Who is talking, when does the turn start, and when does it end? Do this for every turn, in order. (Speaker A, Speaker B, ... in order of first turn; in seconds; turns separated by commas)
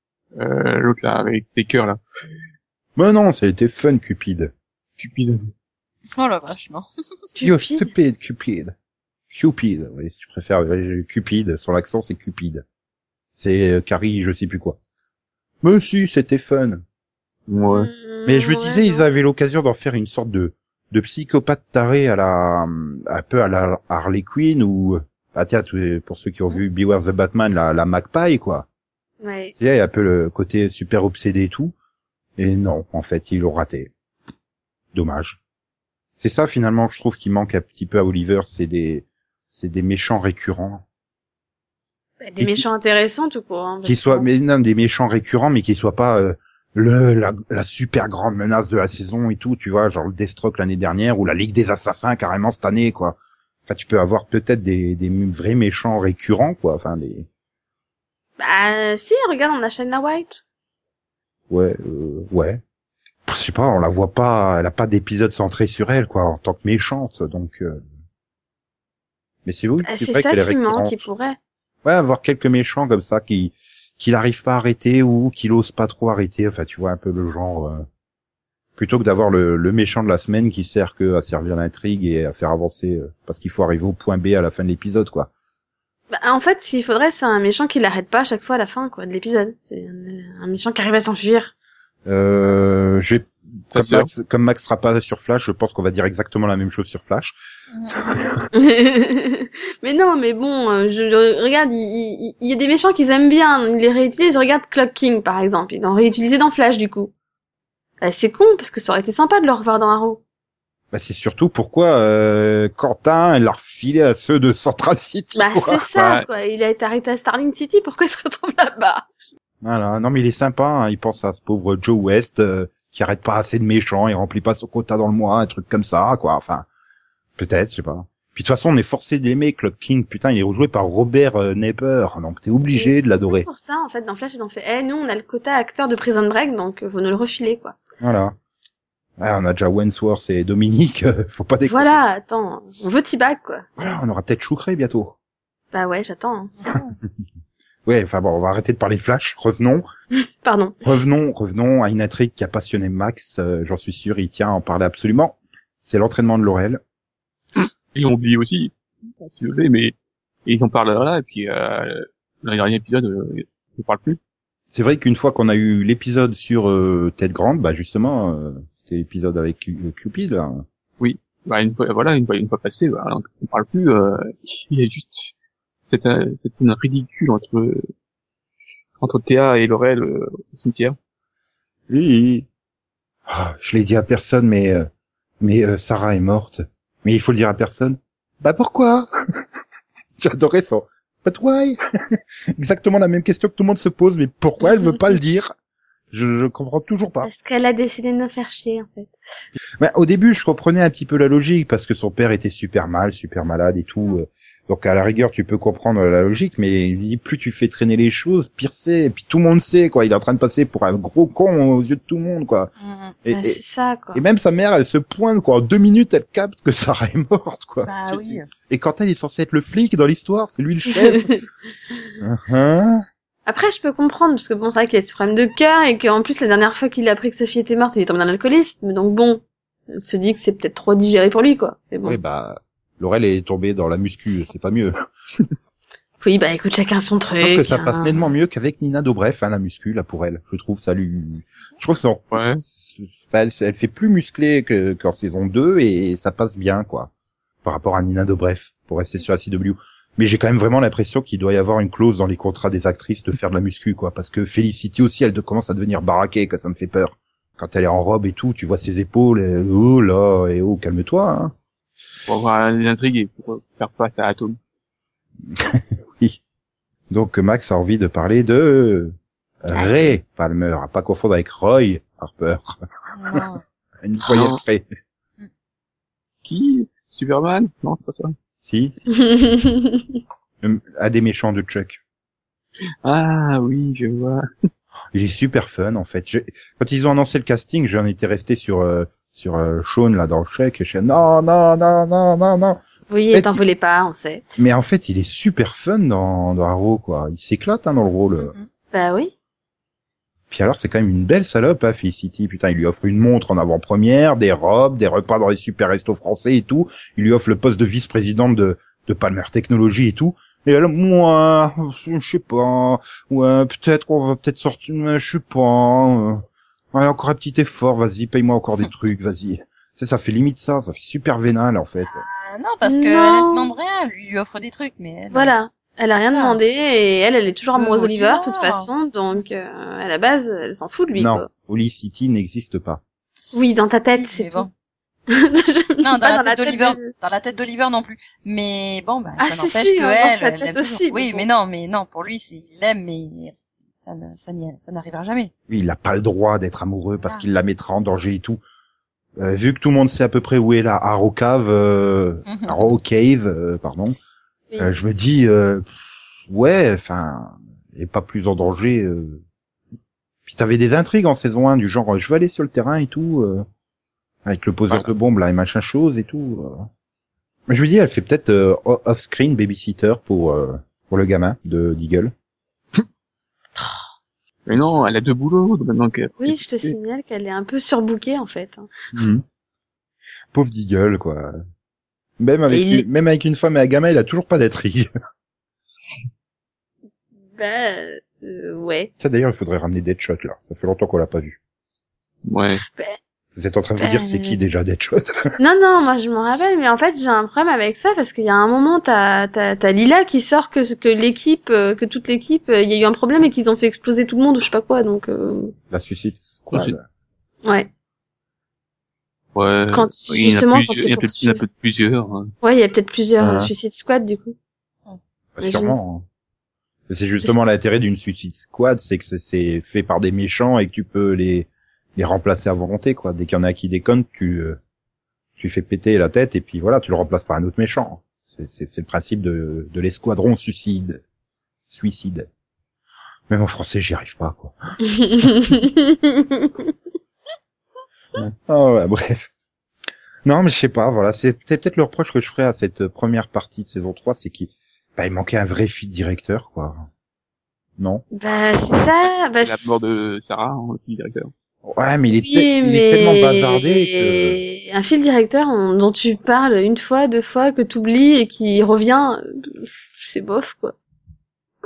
Speaker A: 0.3-2.0, Speaker B: 3.0-4.5, Speaker A: 5.0-5.5, Speaker C: 6.1-6.8, Speaker D: 7.3-7.9, Speaker B: 7.4-8.7, Speaker B: 9.3-12.6, Speaker B: 13.4-14.8, Speaker B: 15.6-16.8, Speaker A: 17.5-17.9, Speaker D: 17.7-19.0, Speaker B: 18.2-28.7, Speaker D: 29.2-29.5, Speaker B: 29.6-31.7, Speaker B: 32.4-33.9, Speaker B: 34.9-35.4, Speaker B: 36.2-40.8, Speaker D: 42.2-44.3, Speaker B: 42.4-42.6, Speaker B: 43.8-57.3, Speaker D: 58.4-60.4, Speaker B: 61.5-62.6, Speaker B: 63.2-67.8, Speaker B: 69.4-71.0, Speaker D: 69.8-71.4, Speaker B: 71.8-77.8, Speaker B: 78.8-85.3, Speaker D: 86.1-91.5, Speaker B: 92.0-97.4, Speaker A: 93.7-94.1, Speaker C: 97.7-98.1, Speaker B: 98.0-98.4, Speaker D: 98.5-107.1, Speaker D: 108.0-110.2, Speaker B: 110.9-115.9, Speaker D: 115.3-119.0, Speaker A: 116.0-116.2, Speaker B: 119.6-126.7, Speaker B: 127.3-133.5, Speaker D: 132.7-137.8, Speaker B: 138.0-138.3, Speaker B: 139.2-142.0, Speaker D: 141.7-143.7, Speaker B: 143.8-145.1, Speaker D: 145.7-146.5, Speaker B: 147.8-149.9, Speaker D: 150.4-150.8, Speaker B: 150.8-156.8, Speaker A: 157.6-159.9, Speaker A: 160.4-164.2, Speaker B: 164.7-170.6, Speaker A: 171.0-175.3, Speaker A: 175.8-177.9, Speaker A: 179.0-180.9, Speaker B: 181.9-182.5, Speaker B: 183.3-184.9, Speaker B: 185.4-189.1, Speaker B: 190.2-195.5, Speaker B: 196.1-197.3, Speaker D: 197.2-199.1, Speaker B: 199.8-212.7, Speaker C: 212.8-213.2, Speaker B: 213.2-213.6, Speaker D: 213.3-214.2, Speaker B: 214.1-221.3, Speaker C: 217.8-218.5, Speaker D: 220.8-221.4, Speaker B: 222.2-223.0, Speaker D: 223.4-232.2, Speaker B: 232.0-234.9, Speaker D: 236.2-238.3, Speaker B: 237.4-247.1, Speaker A: 242.3-242.6, Speaker B: 247.6-261.5, Speaker A: 262.2-264.6, Speaker B: 265.5-266.4, Speaker B: 267.1-273.4, Speaker D: 269.7-270.0, Speaker C: 273.1-273.6, Speaker B: 274.0-274.9, Speaker A: 274.3-274.6, Speaker A: 276.4-278.3, Speaker B: 278.6-279.0, Speaker D: 279.1-280.2, Speaker B: 280.6-282.0, Speaker A: 283.0-284.4, Speaker B: 285.1-293.6, Speaker D: 293.1-294.4, Speaker B: 294.6-298.5, Speaker C: 298.4-298.6, Speaker D: 298.9-299.3, Speaker B: 300.5-322.2, Speaker C: 322.1-325.5, Speaker D: 322.8-323.6, Speaker D: 325.3-331.5, Speaker C: 326.3-326.6, Speaker C: 327.7-329.4, Speaker B: 331.1-333.0, Speaker D: 333.5-334.7, Speaker C: 333.6-334.7, Speaker D: 335.3-337.1, Speaker C: 336.0-345.5, Speaker D: 339.4-341.4, Speaker B: 345.7-348.6, Speaker B: 349.4-354.1, Speaker C: 352.4-352.9, Speaker B: 354.8-359.4, Speaker B: 360.4-363.6, Speaker B: 364.4-366.9, Speaker B: 367.7-372.3, Speaker A: 374.7-376.9, Speaker D: 376.4-378.9, Speaker B: 379.1-379.4, Speaker B: 380.5-381.6, Speaker B: 382.4-385.1, Speaker A: 382.7-383.0, Speaker D: 387.6-389.1, Speaker B: 389.2-391.6, Speaker A: 392.4-392.8, Speaker B: 393.6-395.5, Speaker D: 394.0-394.6, Speaker D: 395.6-405.7, Speaker B: 405.9-407.0, Speaker D: 407.6-407.9, Speaker A: 409.5-412.5, Speaker D: 409.9-411.6, Speaker D: 412.6-414.6, Speaker B: 413.4-413.7, Speaker B: 415.6-416.2, Speaker D: 415.6-416.0, Speaker B: 417.1-424.8, Speaker B: 425.6-431.2, Speaker B: 431.9-432.5, Speaker B: 433.5-434.8, Speaker D: 435.0-436.9, Speaker B: 438.3-439.5, Speaker B: 440.4-447.1, Speaker B: 448.0-448.2, Speaker D: 448.3-449.8, Speaker A: 449.2-451.5, Speaker B: 451.8-454.6, Speaker D: 452.4-460.9